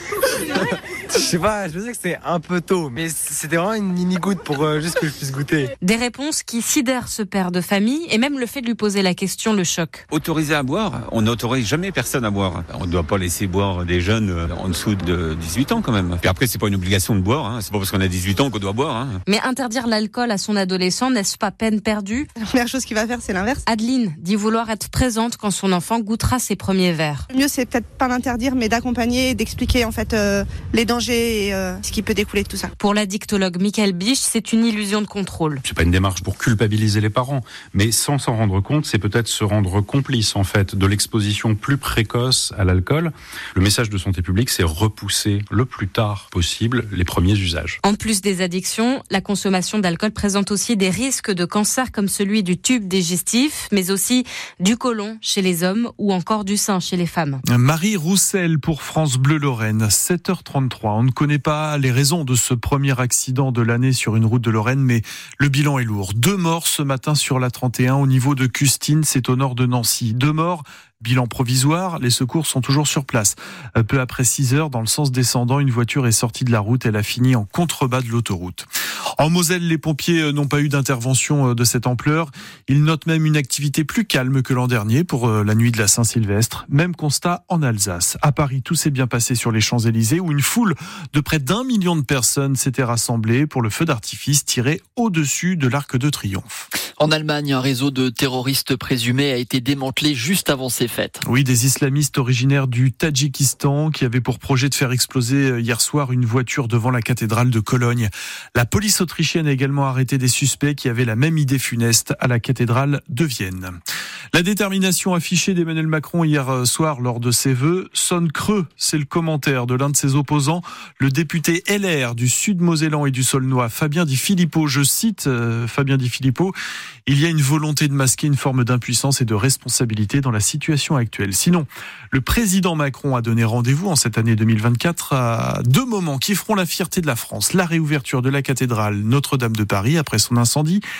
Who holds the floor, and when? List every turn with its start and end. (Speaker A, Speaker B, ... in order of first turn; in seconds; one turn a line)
Speaker A: 1.1-5.7
Speaker B: 5.8-10.0
Speaker C: 10.1-19.2
Speaker B: 19.3-22.3
Speaker D: 22.4-23.6
Speaker B: 23.7-27.2
Speaker D: 27.3-32.7
Speaker B: 32.8-35.6
Speaker E: 35.6-47.8
Speaker B: 47.8-57.4
Speaker F: 57.5-78.7
Speaker F: 79.2-96.7
Speaker G: 97.0-101.2
Speaker F: 101.2-113.8
Speaker F: 114.3-126.5
Speaker F: 127.0-140.8